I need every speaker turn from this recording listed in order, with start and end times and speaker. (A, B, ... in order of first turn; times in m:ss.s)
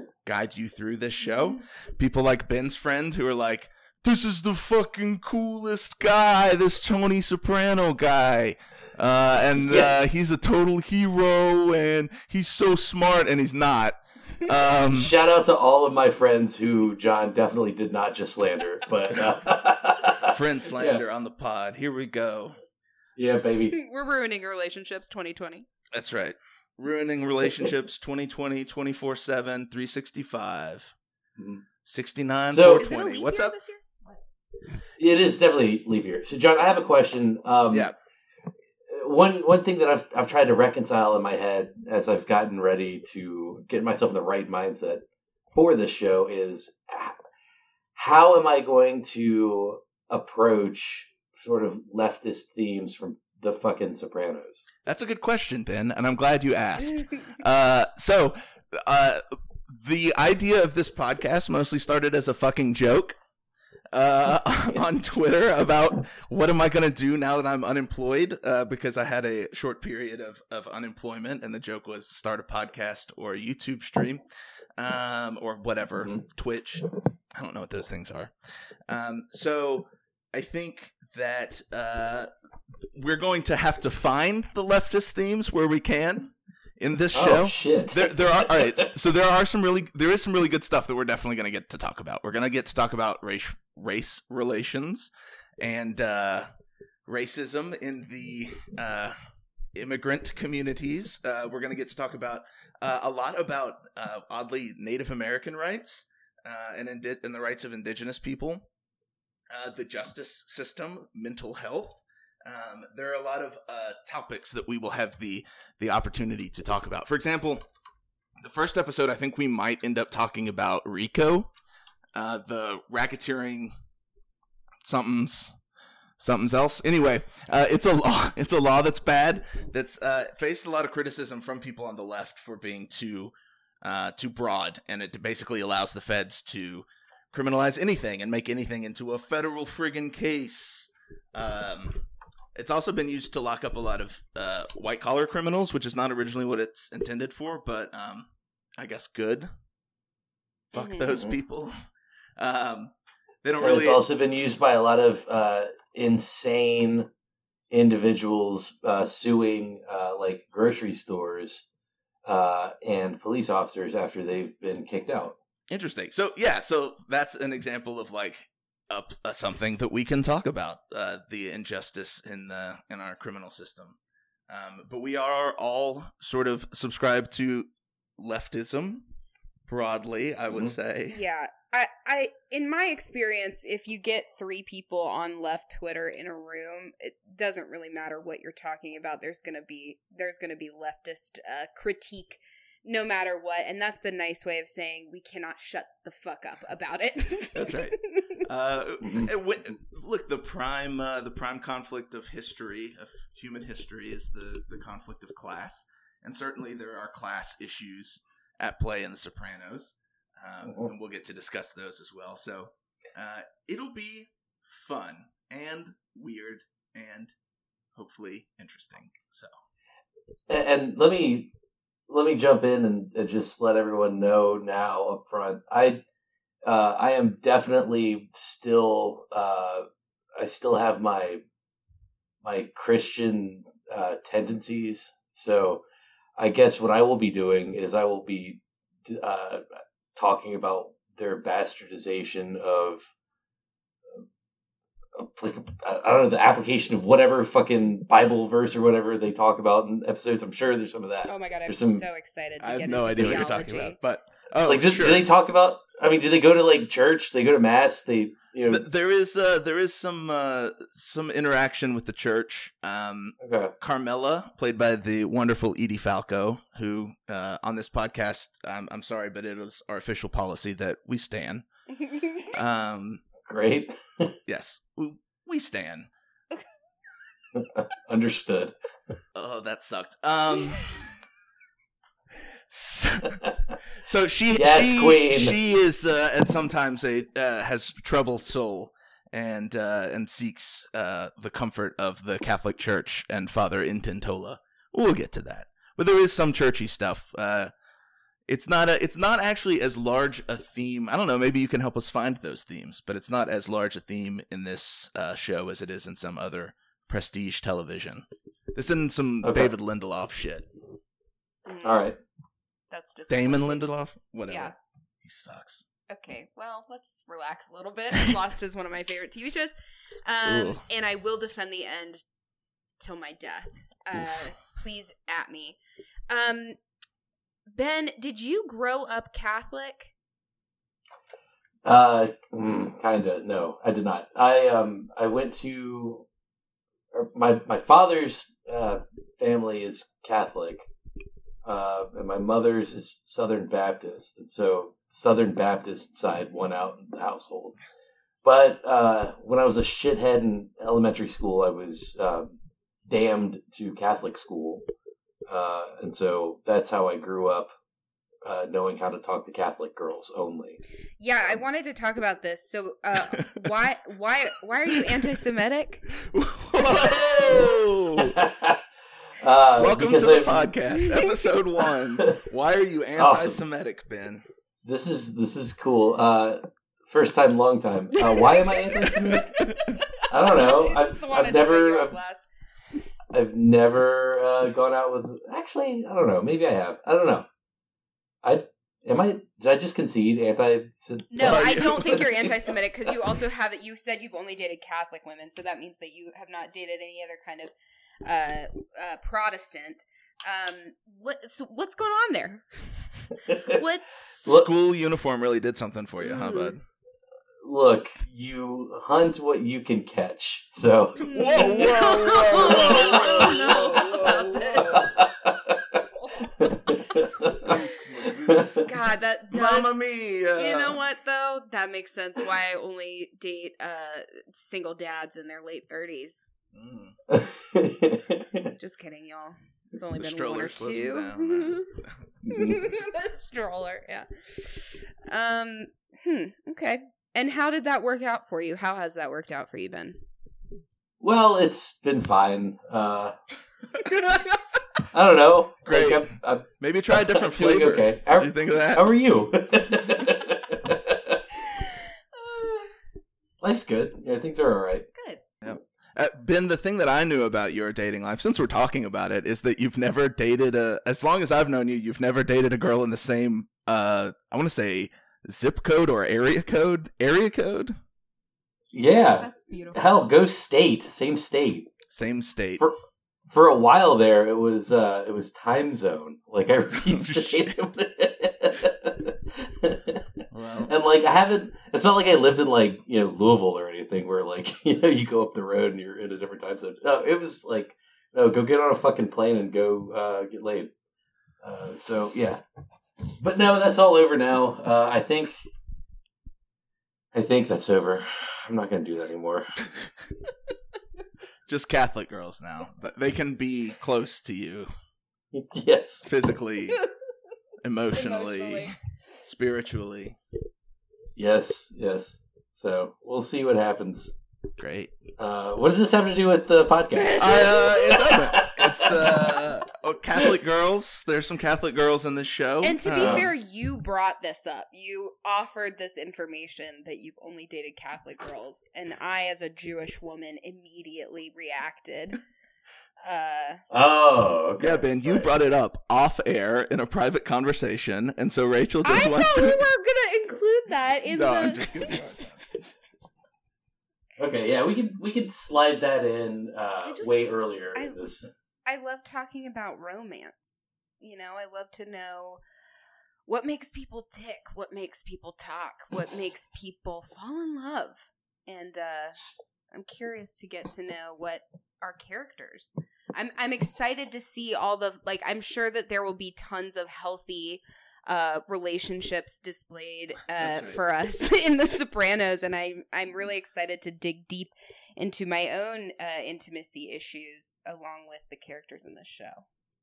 0:00.2-0:15.1 A
0:09.6-0:10.1 B
0:14.9-0:21.0 B
0:20.2-0:22.6 A
0:23.2-0:23.8 B
0:23.7-0:25.7 C
0:25.9-0:30.9 A
0:31.4-0:31.6 B
0:31.8-0:33.6 A
0:32.5-0:32.8 B
0:32.8-0:34.2 C
0:35.0-0:37.9 B
0:37.7-0:38.0 A
0:38.9-0:47.2 B
0:48.0-0:54.6 B
0:54.8-1:03.2 A
1:03.9-1:14.2 A
1:14.8-1:18.3 A
1:18.9-1:22.3 A
1:22.9-1:36.5 A
1:27.1-1:28.9 B
1:37.1-1:39.2 A
1:39.8-1:48.7 A
1:49.5-1:57.6 A
1:58.4-2:01.5 A
2:02.2-2:03.7 A
2:04.8-2:05.6 A
2:06.2-2:29.5 A
2:30.7-2:31.7 A
2:30.8-2:31.1 C
2:32.4-2:32.9 A
2:33.4-2:34.0 A
2:33.6-2:37.1 B
2:37.7-2:41.7 B
2:42.3-2:45.4 B
2:45.7-2:54.0 A
2:54.5-2:59.1 A
2:59.7-3:01.2 A
3:01.1-3:18.4 C
3:17.5-3:37.3 A
3:19.0-3:19.3 B
3:38.0-3:39.5 A
3:40.5-3:41.5 B
3:42.1-3:46.0 B
3:46.6-3:49.9 B
3:50.4-3:51.4 B
3:52.4-3:55.8 B
3:56.4-4:03.1 B
4:05.2-4:12.0 B
4:11.3-4:14.0 C
4:12.6-4:15.3 A
4:13.2-4:13.4 B
4:14.7-4:18.9 B
4:18.7-4:31.6 A
4:23.4-4:23.7 B
4:32.1-4:32.5 C
4:32.4-4:33.2 A
4:33.4-4:34.4 B
4:34.5-4:36.1 A
4:37.5-4:38.7 B
4:39.4-4:41.1 A
4:42.7-4:57.7 A
4:44.5-4:45.6 B
4:58.5-5:10.7 A
5:09.4-5:09.7 B
5:11.7-5:12.1 C
5:11.8-5:12.2 B
5:12.9-5:13.8 C
5:13.3-5:15.8 A
5:16.1-5:22.2 C
5:20.5-5:20.8 A
5:23.0-5:25.8 C
5:26.3-5:26.8 C
5:27.7-5:30.1 C
5:31.8-5:36.3 B
5:37.1-5:40.9 B
5:41.6-5:47.8 B
5:48.4-5:54.9 B
5:55.5-5:57.7 B
5:58.4-6:00.8 B
6:01.2-6:06.1 C
6:06.2-6:08.4 A
6:06.9-6:08.8 B
6:09.4-6:10.8 B
6:09.8-6:14.4 A
6:12.2-6:12.4 B
6:13.2-6:13.6 B
6:14.8-6:19.7 B
6:18.2-6:22.5 C
6:19.2-6:20.0 A
6:20.2-6:22.2 B
6:23.3-6:27.5 B
6:28.4-6:32.3 B
6:31.3-6:37.7 C
6:31.4-6:32.4 A
6:38.2-6:44.6 C
6:43.5-6:43.8 B
6:44.5-6:46.8 A
6:46.2-6:46.7 C
6:47.6-6:58.8 B
6:51.2-6:55.1 A
6:51.2-6:55.2 C
6:57.6-6:58.0 C
6:57.8-7:01.0 A
6:58.8-7:00.0 C
7:00.6-7:06.5 C
7:06.7-7:07.2 A
7:07.3-7:08.7 B
7:08.8-7:11.9 C
7:10.2-7:12.1 A
7:12.5-7:20.2 C
7:21.2-7:23.4 B
7:24.0-7:24.4 C
7:24.0-7:24.5 A
7:25.1-7:31.4 B
7:25.8-7:29.1 A
7:31.6-7:33.0 C
7:33.6-7:35.1 B
7:35.1-7:35.4 C
7:35.6-7:48.0 A
7:48.9-7:51.9 B
7:49.4-7:50.1 C
7:52.1-7:52.8 A
7:53.5-8:10.9 B
7:57.1-7:57.8 A
8:00.5-8:00.9 A
8:11.6-8:12.6 B
8:13.4-8:15.5 B
8:17.3-8:19.7 B
8:21.7-8:24.9 A
8:25.5-8:26.3 B
8:26.2-8:27.0 A
8:27.8-8:28.9 A
8:28.1-8:28.9 C
8:29.4-8:30.4 A
8:31.4-8:34.3 B
8:34.8-8:35.2 A
8:35.4-8:39.8 B
8:37.2-8:38.2 C
8:37.4-8:43.5 A
8:42.8-8:52.4 C
8:43.2-8:43.5 B
8:53.2-8:53.8 C
8:53.9-8:55.5 B
8:54.8-8:59.8 A
8:59.0-9:02.2 C
9:01.3-9:02.8 A
9:04.4-9:08.5 B
9:07.0-9:08.2 C
9:08.9-9:12.6 C
9:13.5-9:39.6 C
9:30.6-9:31.0 A